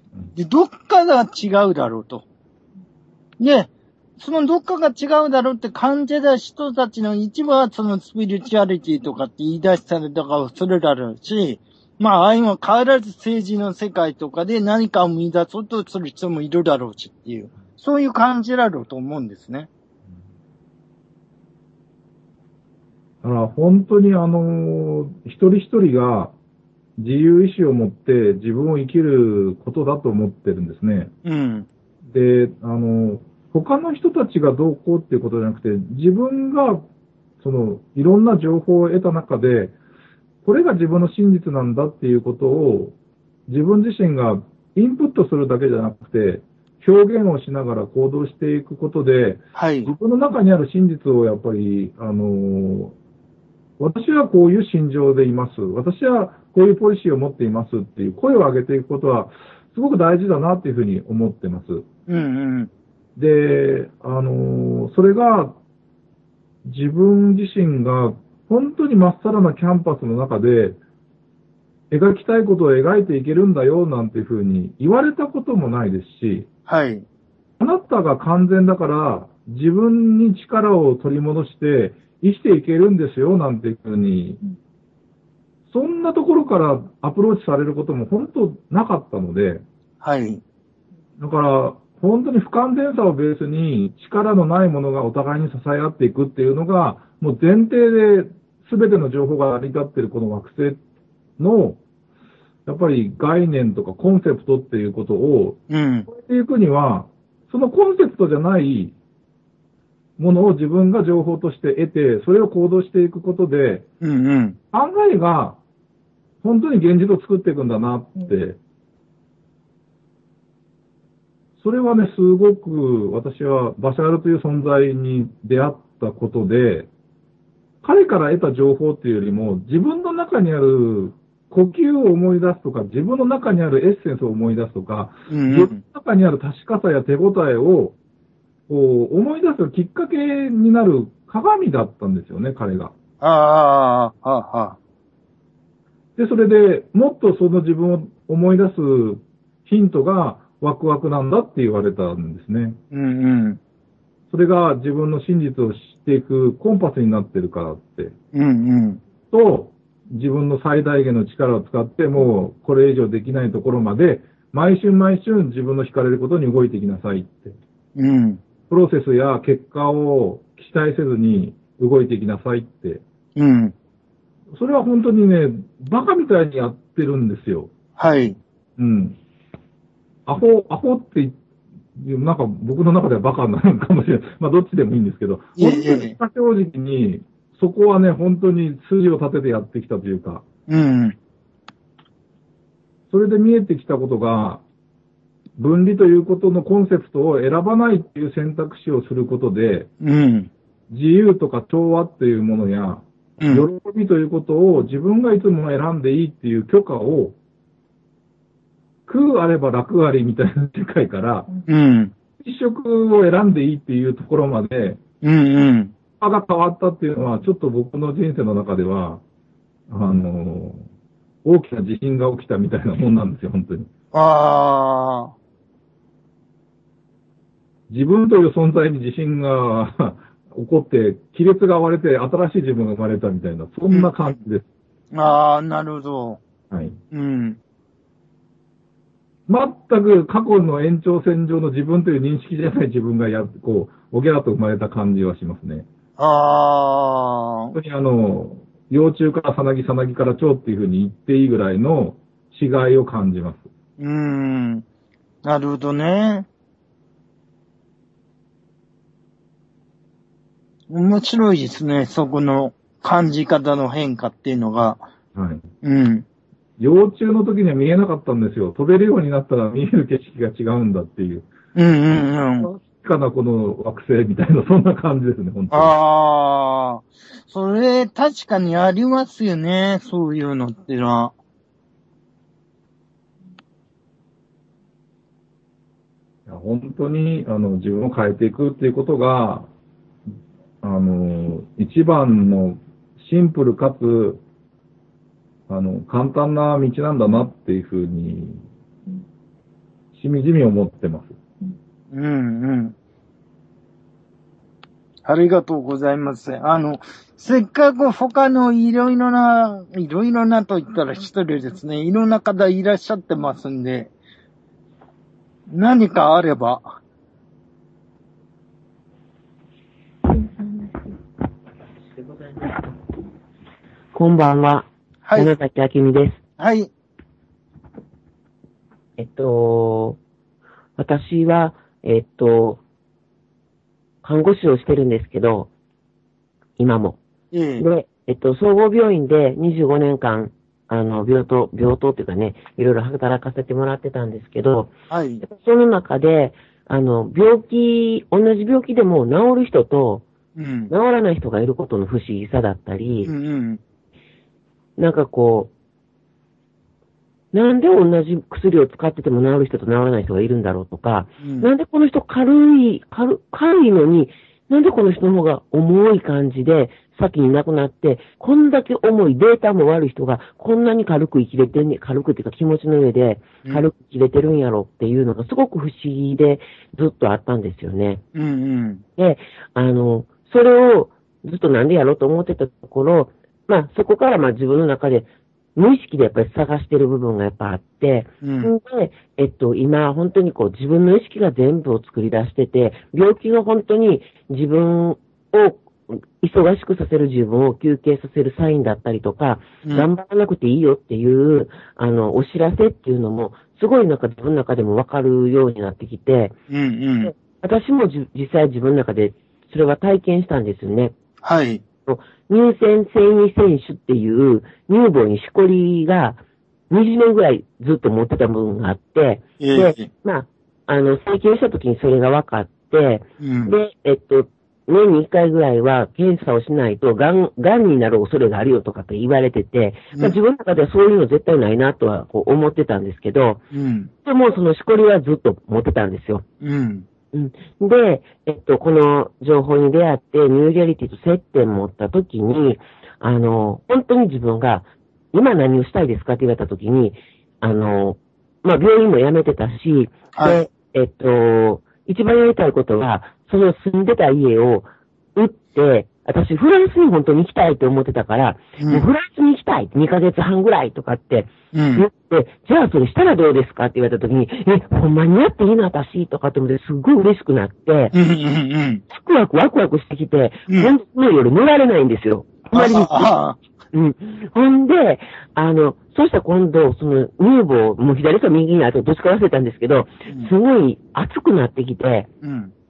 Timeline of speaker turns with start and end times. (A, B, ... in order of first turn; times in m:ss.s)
0:00.4-0:02.2 A
0:03.4-0:19.7 A
0:23.2-0:26.3 B
0:27.0-0:31.1 B
0:31.2-0:31.7 A
0:32.1-0:36.9 B
0:37.4-0:39.7 B
0:40.4-0:43.0 B
0:43.5-0:52.9 B
0:49.6-0:49.9 A
0:53.8-1:01.9 B
1:02.1-1:02.7 A
1:03.2-1:05.6 B
1:06.6-1:10.8 B
1:11.9-1:16.5 B
1:16.7-1:17.0 A
1:17.6-1:24.4 B
1:25.7-1:29.6 B
1:30.0-1:30.4 A
1:31.2-1:40.8 B
1:41.4-1:41.8 B
1:42.7-1:49.0 B
1:45.7-1:46.1 A
1:50.2-1:53.9 B
1:54.0-1:54.6 A
1:54.7-1:55.6 B
1:56.4-1:58.6 B
2:01.6-2:06.9 B
2:07.8-2:18.0 B
2:15.3-2:15.8 A
2:18.7-2:22.9 B
2:23.2-2:24.8 A
2:26.2-2:32.8 B
2:32.9-2:33.6 A
2:34.3-2:38.2 B
2:38.3-2:39.0 A
2:39.3-2:47.6 B
2:48.0-2:48.4 A
2:48.7-2:53.0 B
2:53.4-2:53.7 A
2:54.5-2:57.7 B
2:58.0-2:58.4 A
2:58.8-2:59.2 B
3:00.3-3:01.4 B
3:02.0-3:10.4 B
3:05.6-3:06.2 A
3:10.7-3:11.2 A
3:13.1-3:14.6 B
3:15.6-3:19.9 B
3:20.0-3:20.5 A
3:20.9-3:27.4 B
3:23.4-3:23.6 A
3:29.1-3:31.5 B
3:31.7-3:32.1 A
3:32.4-3:35.0 B
3:35.2-3:35.9 A
3:36.2-3:39.2 B
3:39.9-3:40.9 B
3:41.4-3:43.9 B
3:44.1-3:45.3 A
3:47.9-3:54.7 B
3:53.9-3:54.4 A
3:55.1-3:56.4 A
3:56.7-3:57.0 B
3:57.1-3:57.6 A
3:59.5-4:05.9 B
4:06.2-4:07.7 A
4:07.7-4:13.7 B
4:14.0-4:14.8 A
4:15.4-4:16.5 A
4:20.9-4:25.1 A
4:25.4-4:25.6 B
4:25.8-4:26.2 A
4:26.8-4:31.5 B
4:31.8-4:32.7 A
4:32.6-4:35.9 B
4:35.7-4:41.3 A
4:46.5-4:49.7 B
4:50.8-4:54.4 B
4:55.7-4:58.6 B
5:00.2-5:01.4 B
5:02.1-5:03.0 A
5:05.3-5:14.1 A
5:15.7-5:16.9 A
5:24.1-5:26.4 C
5:25.2-5:25.5 A
5:26.6-5:26.9 A
5:29.2-5:30.2 C
5:31.0-5:32.8 C
5:34.2-5:35.7 C
5:36.8-5:37.2 C
5:37.5-5:37.8 A
5:37.8-5:50.2 C
5:45.1-5:45.4 A
5:50.6-5:50.9 A
5:50.9-5:53.3 C
5:53.2-5:53.8 A
5:55.0-5:55.7 C
5:57.5-6:18.2 C
6:01.4-6:01.7 A
6:18.4-6:19.0 A
6:19.2-6:46.6 C
6:28.4-6:28.7 A
6:46.7-6:47.3 A
6:47.2-6:51.2 C
6:51.4-6:51.8 A
6:52.1-7:13.6 C
6:59.6-7:00.1 A
7:03.4-7:03.7 A
7:13.7-7:14.1 A
7:14.2-7:16.4 C
7:16.6-7:17.0 A
7:17.3-7:48.1 C
7:30.4-7:30.6 A
7:38.8-7:39.0 A
7:41.7-7:42.0 A
7:48.1-7:49.0 A
7:49.1-7:53.3 C
7:52.7-7:53.6 A
7:53.9-8:02.3 C
8:02.4-8:02.7 A